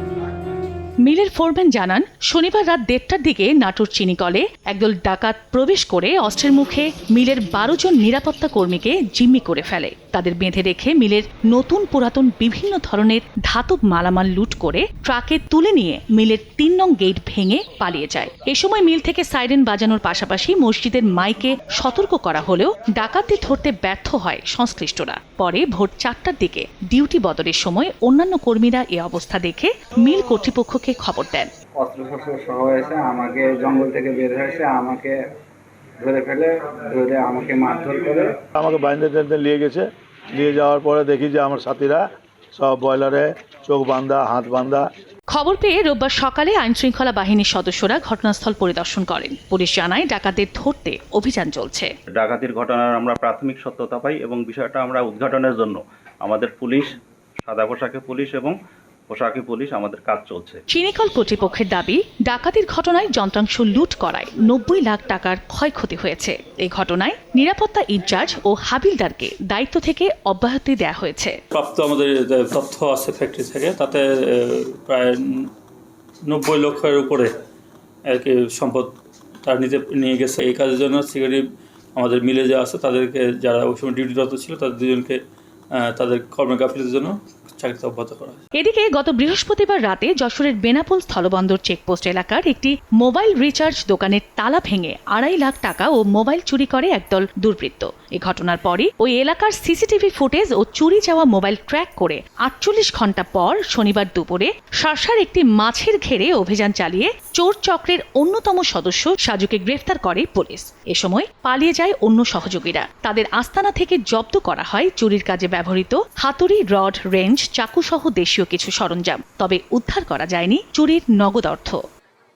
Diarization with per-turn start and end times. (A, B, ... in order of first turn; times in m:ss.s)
0:01.0-0:31.5 A
0:31.8-0:35.2 B
0:36.0-0:38.4 B
0:38.6-0:39.8 C
0:40.4-0:42.0 C
0:42.6-0:44.9 C
0:45.3-0:51.9 A
0:52.2-0:56.9 D
0:57.5-0:58.6 D
0:59.1-1:00.6 D
1:00.7-1:11.4 A
1:11.5-1:15.5 E
1:16.3-1:17.3 E
1:18.1-1:18.9 E
1:19.4-1:21.4 E
1:22.0-1:25.2 E
1:25.7-1:28.4 E
1:28.6-2:01.8 A